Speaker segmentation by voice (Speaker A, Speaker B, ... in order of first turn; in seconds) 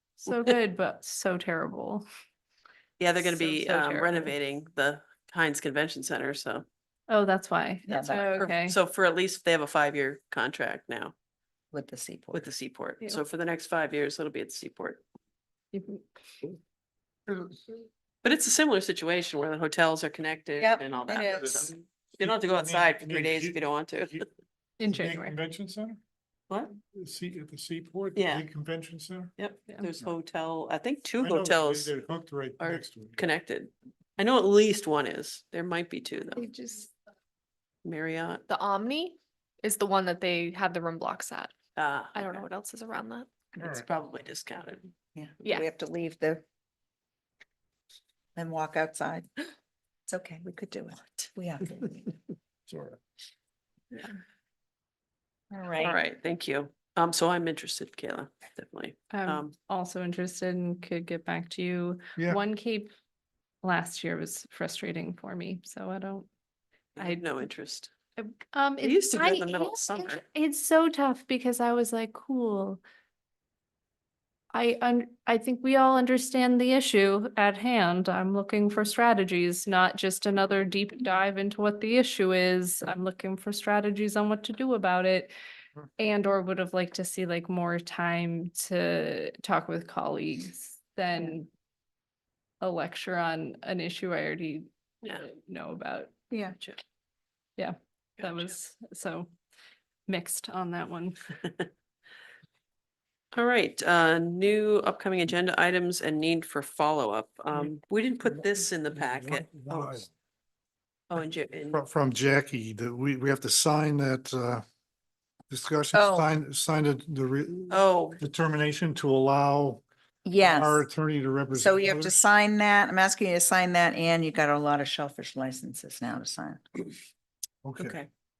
Speaker A: 0.2-2.1, 3.2-4.3, 7.1-8.8, 15.7-16.1, 24.8-25.4, 59.1-62.9, 63.6-66.3, 67.0-67.2, 68.2-72.8, 74.5-85.3, 86.0-91.5, 92.6-96.1, 97.6-99.3, 100.1-101.2
Speaker B: 3.0-6.7, 8.1-11.1, 12.3-15.0, 18.2-24.2, 28.2-28.5, 29.4-31.9, 32.6-36.5, 37.8-38.4, 41.8-42.5, 43.6-44.9, 55.8-59.5, 67.0-67.9, 68.8-70.2, 98.2-98.5, 103.3-110.0, 111.1-111.8, 117.7-118.2, 127.8-128.1
Speaker C: 7.9-8.3, 11.7-12.5, 20.6-21.7, 36.4-36.9, 45.1-46.4, 48.4-49.3, 50.1-52.1, 55.5-56.0, 115.9-116.3, 120.2-120.9, 121.5-126.8
Speaker D: 17.3-17.6, 21.1-24.2, 24.9-26.0, 26.9-29.3, 31.2-33.2, 43.6-43.9, 52.7-53.0, 108.9-110.1, 111.7-114.6, 115.5-119.8, 120.4-122.3, 127.6-128.0
Speaker E: 38.5-41.5, 42.1-43.5